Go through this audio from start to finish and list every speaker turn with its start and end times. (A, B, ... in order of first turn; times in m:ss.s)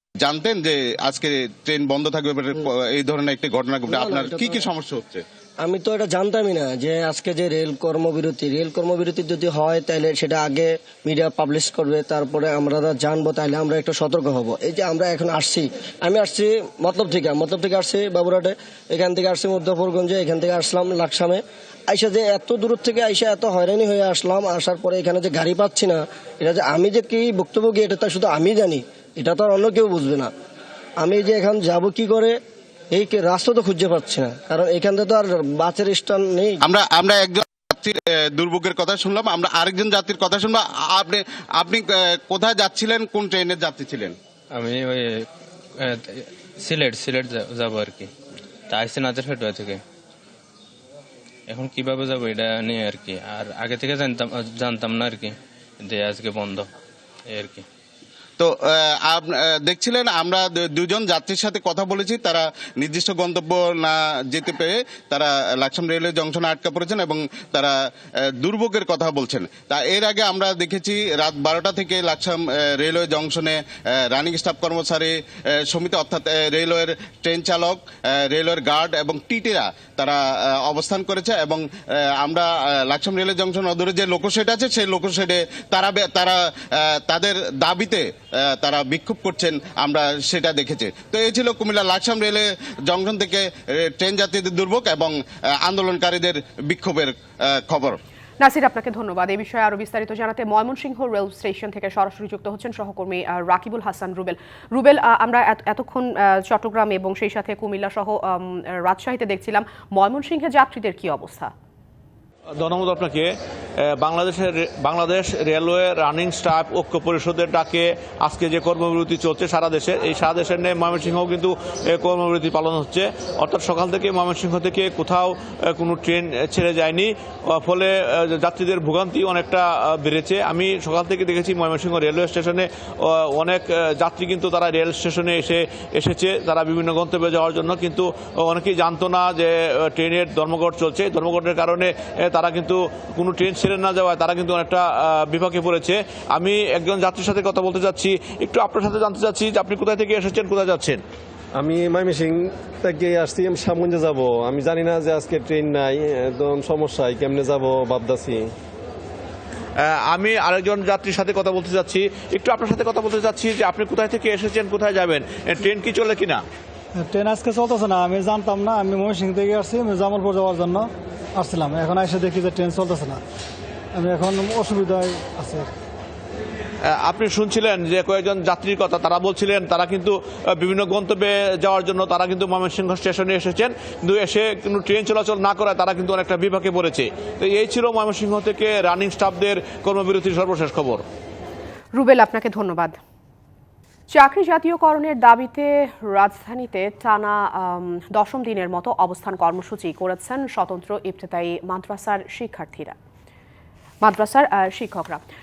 0:00.2-0:05.2 A
0:03.9-0:04.6 B
0:05.6-0:30.3 B
0:31.0-0:32.4 B
0:32.9-0:36.6 B
0:36.6-0:44.1 A
0:44.5-0:45.2 C
0:45.8-0:48.1 C
0:48.7-0:49.8 C
0:51.5-0:56.7 C
0:57.3-0:57.6 C
0:58.4-1:38.0 A
1:38.4-1:51.5 D
1:52.6-2:31.0 E
2:31.5-2:38.5 F
2:39.8-2:46.4 E
2:47.0-2:50.9 G
2:51.4-2:53.2 G
2:54.0-2:55.7 G
2:56.8-3:11.0 E
3:11.9-3:13.0 D
3:14.1-3:23.0 D
3:24.0-3:25.2 D